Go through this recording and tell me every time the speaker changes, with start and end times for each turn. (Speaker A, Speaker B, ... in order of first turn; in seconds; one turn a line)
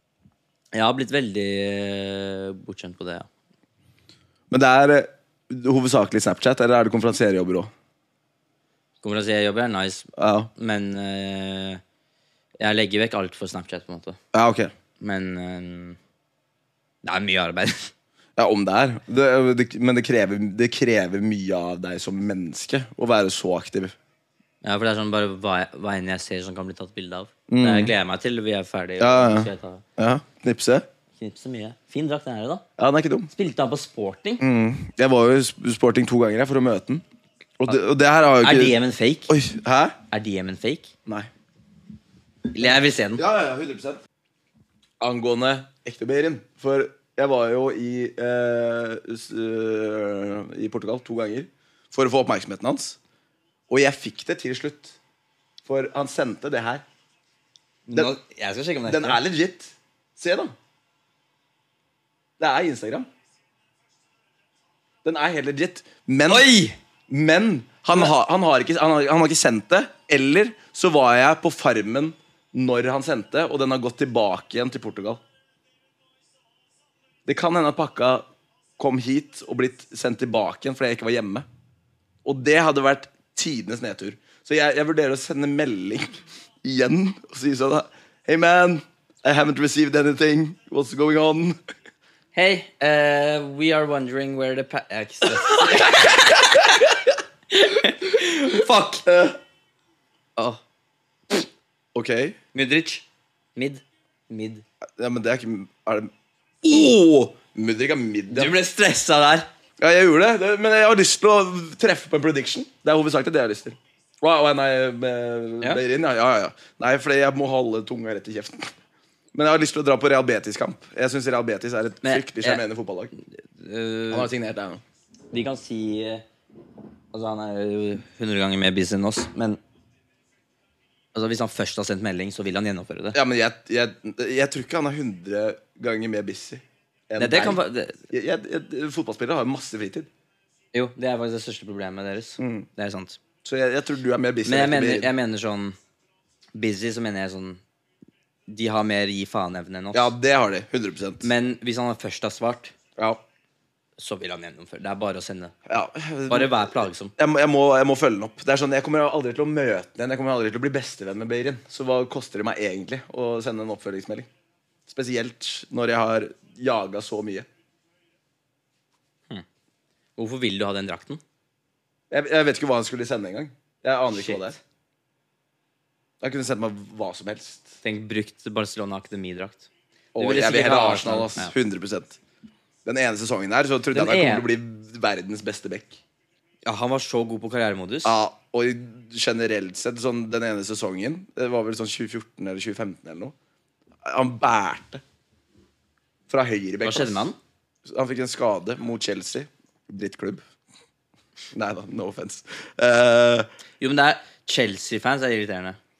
Speaker A: 0.7-3.3
Speaker B: 4.5-7.7
Speaker A: 9.0-11.8
Speaker B: 10.2-10.5
Speaker A: 12.6-14.2
Speaker B: 14.3-14.7
Speaker A: 15.0-16.0
Speaker A: 17.0-17.9
Speaker B: 18.4-23.9
Speaker A: 24.6-29.8
Speaker B: 27.5-27.9
Speaker B: 29.0-30.9
Speaker A: 31.2-32.6
Speaker B: 32.8-33.3
Speaker A: 33.3-34.4
Speaker B: 34.4-37.0
Speaker B: 37.6-40.0
Speaker A: 38.4-39.3
Speaker A: 40.1-40.9
Speaker A: 42.5-43.2
Speaker B: 42.6-44.0
Speaker B: 45.0-53.0
Speaker B: 53.7-55.0
Speaker B: 55.6-56.8
Speaker A: 57.9-59.2
Speaker B: 58.9-60.5
Speaker B: 62.4-63.1
Speaker B: 65.0-66.5
Speaker A: 66.3-66.8
Speaker B: 67.1-75.2
Speaker B: 77.3-78.3
Speaker B: 78.8-81.5
Speaker B: 82.2-91.6
Speaker A: 92.3-96.8
Speaker B: 95.5-96.9
Speaker A: 97.5-99.1
Speaker B: 99.1-99.4
Speaker A: 100.4-100.6
Speaker B: 102.0-102.4
Speaker A: 102.5-104.6
Speaker B: 105.0-106.1
Speaker B: 106.6-108.5
Speaker A: 108.3-109.5
Speaker B: 109.8-118.7
Speaker B: 119.3-123.1
Speaker A: 122.0-122.6
Speaker A: 123.5-124.3
Speaker B: 124.1-124.8
Speaker A: 125.3-126.2
Speaker A: 127.1-129.6
Speaker A: 131.1-133.2
Speaker B: 133.1-140.1
Speaker A: 137.2-138.0
Speaker A: 140.7-143.2
Speaker B: 142.4-142.7
Speaker B: 143.4-145.1
Speaker A: 144.4-145.8
Speaker A: 146.5-147.6
Speaker A: 148.5-150.1
Speaker B: 149.9-151.3
Speaker A: 151.2-152.7
Speaker B: 153.0-153.2
Speaker A: 154.0-155.5
Speaker B: 155.7-164.3
Speaker A: 156.3-157.1
Speaker B: 164.9-167.5
Speaker A: 170.2-171.2
Speaker B: 172.1-174.6
Speaker A: 174.1-174.5
Speaker B: 176.2-177.8
Speaker A: 177.8-181.5
Speaker B: 180.2-182.2
Speaker B: 182.8-186.0
Speaker A: 183.9-184.5
Speaker A: 186.7-188.2
Speaker B: 188.1-193.3
Speaker B: 194.1-195.0
Speaker B: 196.3-197.3
Speaker A: 196.8-197.4
Speaker B: 197.9-200.4
Speaker B: 201.5-203.5
Speaker A: 203.8-205.8